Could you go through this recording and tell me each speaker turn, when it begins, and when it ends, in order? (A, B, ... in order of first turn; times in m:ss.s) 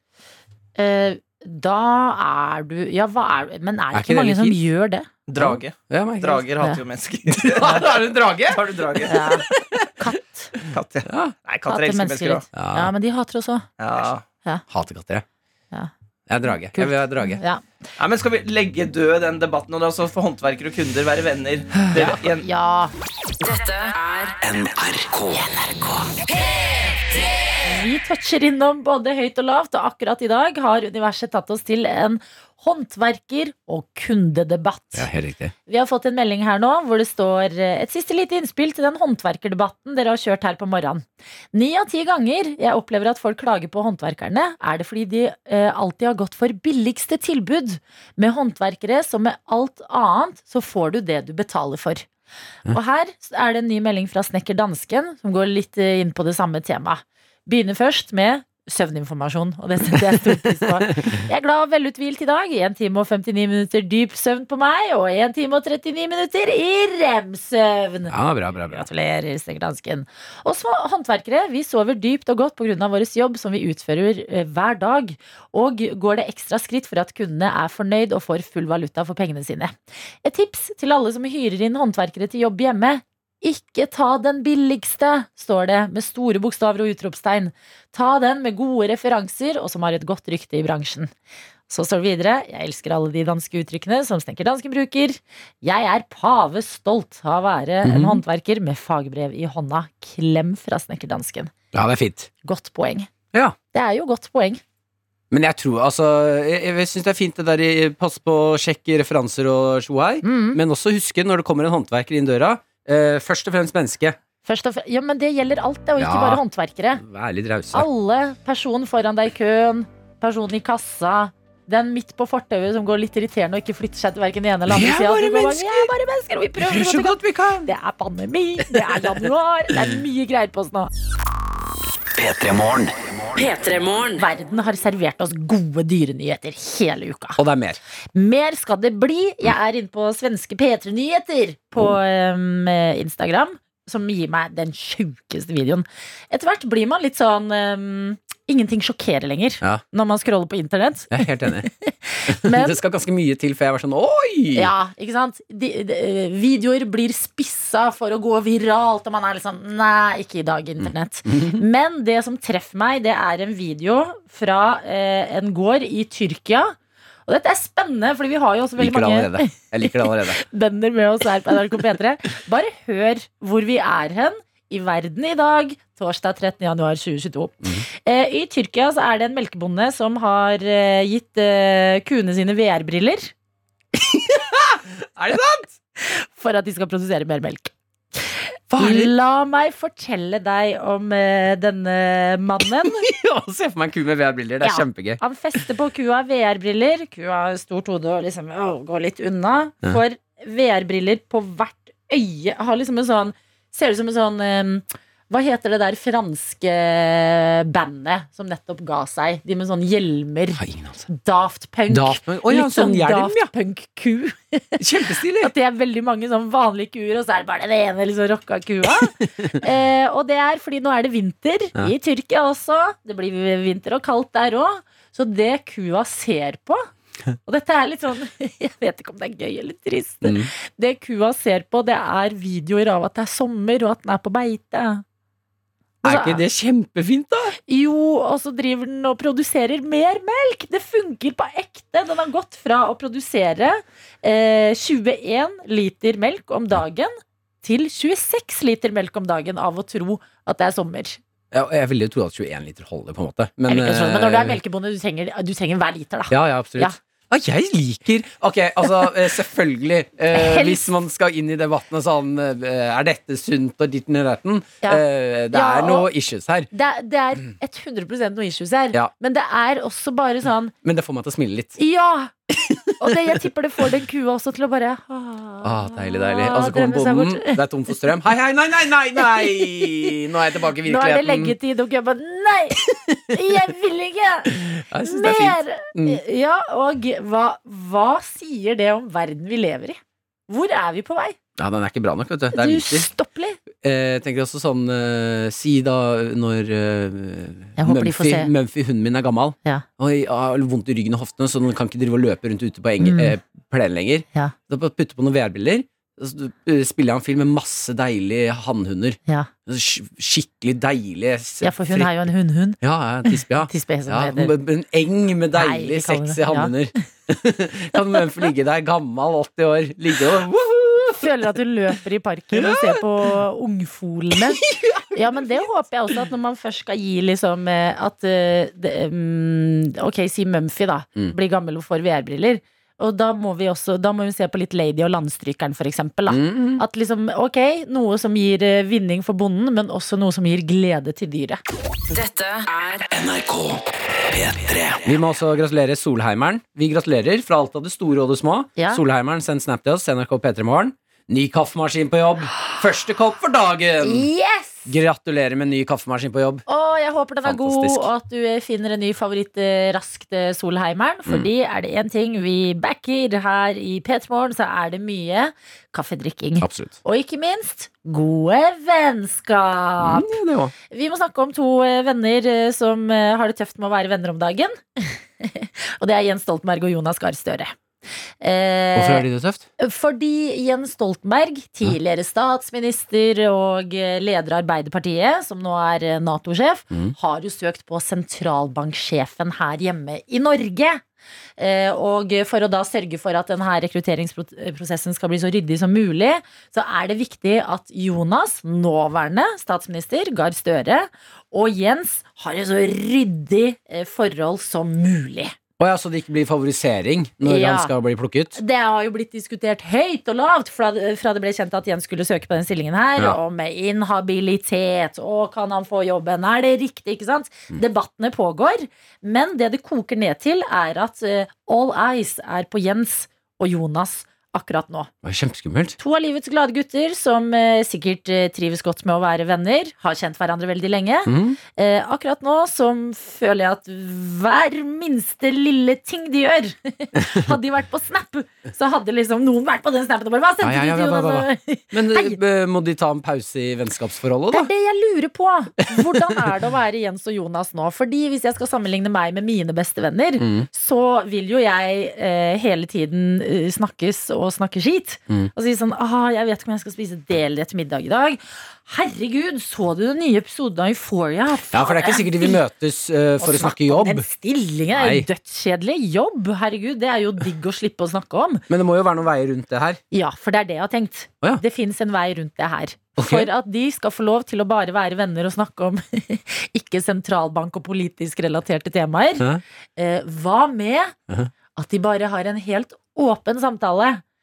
0:00.8-0:05.1 A
0:03.9-0:04.6 B
0:05.3-0:09.2 C
0:05.4-0:06.5 B
0:07.4-0:09.9 B
0:09.1-0:10.5 A
0:10.6-0:11.4 B
0:10.7-0:12.5 C
0:11.7-0:13.7 A
0:12.5-0:12.9 B
0:13.8-0:14.2 C
0:14.7-0:15.2 B
0:16.3-0:17.4 B
0:16.7-0:17.6 A
0:18.0-0:22.5 C
0:21.8-0:22.2 B
0:22.4-0:22.9 A
0:23.4-0:24.4 D
0:24.4-0:26.2 E
0:27.6-0:35.1 A
0:35.0-0:35.5 B
0:35.7-0:52.1 A
0:52.7-1:08.1 A
1:08.1-1:08.9 B
1:08.7-1:31.1 A
1:31.7-1:41.5 A
1:37.8-1:38.2 B
1:41.7-1:42.3 B
1:42.4-1:43.1 A
1:43.7-1:44.6 A
1:45.3-1:54.2 B
1:50.2-1:50.6 A
1:54.5-1:57.0 A
1:56.0-1:56.4 B
1:57.0-1:57.9 B
1:57.7-2:10.9 A
2:04.7-2:05.9 B
2:06.6-2:07.7 B
2:08.7-2:09.2 B
2:12.2-2:13.5 E
2:13.4-2:14.2 D
2:14.2-2:17.4 A
2:17.4-2:17.8 B
2:18.2-2:32.8 A
2:31.1-2:31.7 B
2:32.3-2:34.7 B
2:34.5-3:03.3 A
2:40.8-2:41.6 B
2:48.8-2:50.4 B
3:04.1-3:05.7 B
3:06.0-3:13.1 A
3:08.7-3:09.1 B
3:12.8-3:15.6 B
3:14.6-3:46.9 A
3:30.6-3:31.1 B
3:31.9-3:33.5 B
3:34.8-3:35.5 B
3:47.5-3:55.0 A
3:50.2-3:50.5 B
3:56.0-3:56.4 A
3:56.0-3:57.6 B
3:57.7-4:11.2 A
4:11.5-4:14.6 B
4:13.7-4:17.0 A
4:16.3-4:26.7 B
4:20.3-4:20.8 A
4:24.8-4:26.1 A
4:26.7-4:30.7 A
4:30.8-4:31.8 B
4:31.8-4:32.3 A
4:32.5-4:33.4 B
4:33.0-4:37.6 A
4:35.6-4:41.6 B
4:39.2-4:40.1 A
4:40.8-4:51.4 A
4:42.8-4:43.6 B
4:44.5-4:46.2 B
4:51.6-4:53.1 B
4:52.5-4:53.6 A
4:53.8-5:12.2 B
4:57.8-4:58.5 A
5:03.0-5:03.4 A
5:11.6-5:14.5 A
5:12.8-5:21.3 B
5:15.5-5:16.7 A
5:21.2-5:41.6 A
5:22.5-5:23.0 B
5:24.4-5:25.5 B
5:36.3-5:36.8 B
5:42.1-5:43.1 D
5:43.1-5:45.2 E
5:45.0-5:54.3 B
5:48.8-5:49.0 A
5:54.0-5:54.9 A
5:54.9-5:56.6 B
5:56.7-6:10.3 A
5:57.4-5:58.1 B
6:06.6-6:07.0 B
6:10.0-6:10.7 B
6:10.9-6:17.8 A
6:18.4-6:19.3 A
6:19.0-6:19.7 B
6:19.8-6:31.0 A
6:31.6-6:45.5 A
6:45.8-6:48.6 B
6:47.4-6:47.9 A
6:48.6-7:05.1 A
7:05.2-7:06.0 B
7:06.0-7:22.4 A
7:11.3-7:11.6 B
7:20.6-7:24.7 B
7:24.5-7:42.6 A
7:25.9-7:26.5 B
7:30.4-7:30.7 B
7:41.7-7:44.3 B
7:43.4-7:48.6 A
7:44.9-7:45.3 B
7:48.7-7:50.0 B
7:50.1-7:59.5 A
7:53.2-7:53.5 B
8:00.0-8:01.1 A
8:01.8-8:04.2 A